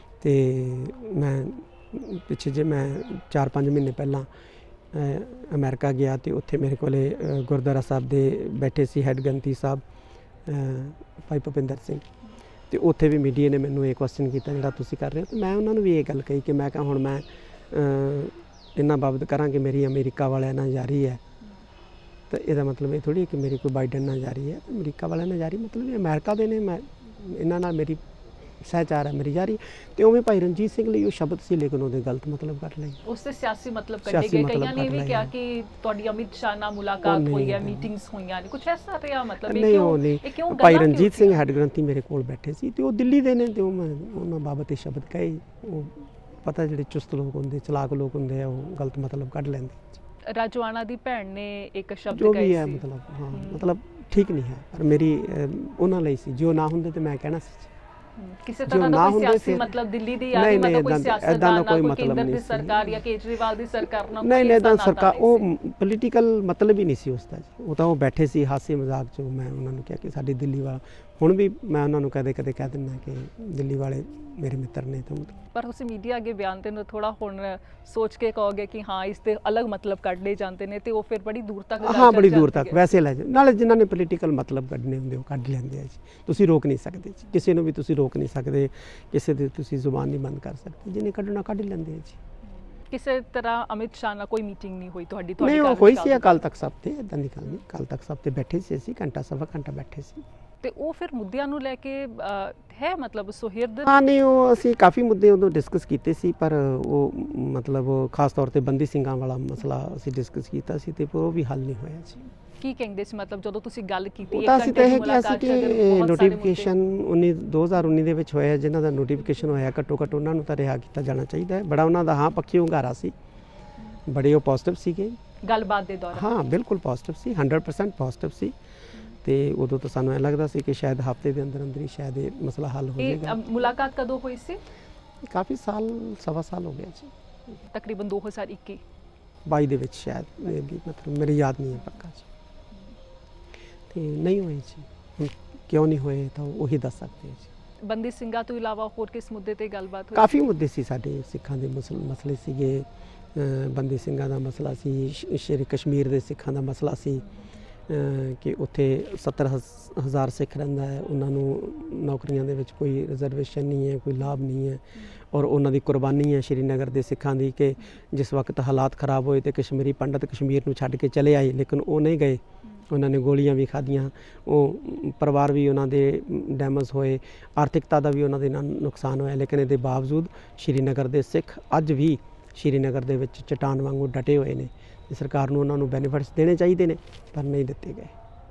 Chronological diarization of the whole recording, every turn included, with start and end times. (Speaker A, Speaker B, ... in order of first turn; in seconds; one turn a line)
Speaker A: 0.2-4.3
Speaker A: 4.9-9.8
Speaker A: 10.4-12.1
Speaker A: 12.7-21.2
Speaker A: 22.3-28.0
Speaker A: 28.6-33.0
Speaker B: 33.0-41.4
Speaker A: 34.1-35.3
Speaker A: 37.0-37.9
Speaker A: 39.5-49.8
Speaker B: 50.3-53.6
Speaker A: 52.1-57.7
Speaker B: 58.2-65.5
Speaker A: 58.7-59.8
Speaker A: 60.3-63.0
Speaker A: 64.1-75.3
Speaker B: 75.4-82.8
Speaker A: 81.8-92.2
Speaker B: 92.9-96.4
Speaker A: 95.4-100.2
Speaker B: 100.6-103.9
Speaker A: 103.8-112.2
Speaker B: 112.6-116.8
Speaker A: 114.3-123.2
Speaker A: 124.1-125.2
Speaker B: 125.4-126.3
Speaker A: 126.1-128.6
Speaker A: 129.2-133.4
Speaker B: 133.0-134.6
Speaker A: 135.3-137.1
Speaker B: 137.7-138.8
Speaker A: 139.5-142.3
Speaker A: 143.9-147.5
Speaker B: 147.8-150.3
Speaker A: 150.1-157.3
Speaker A: 157.9-188.1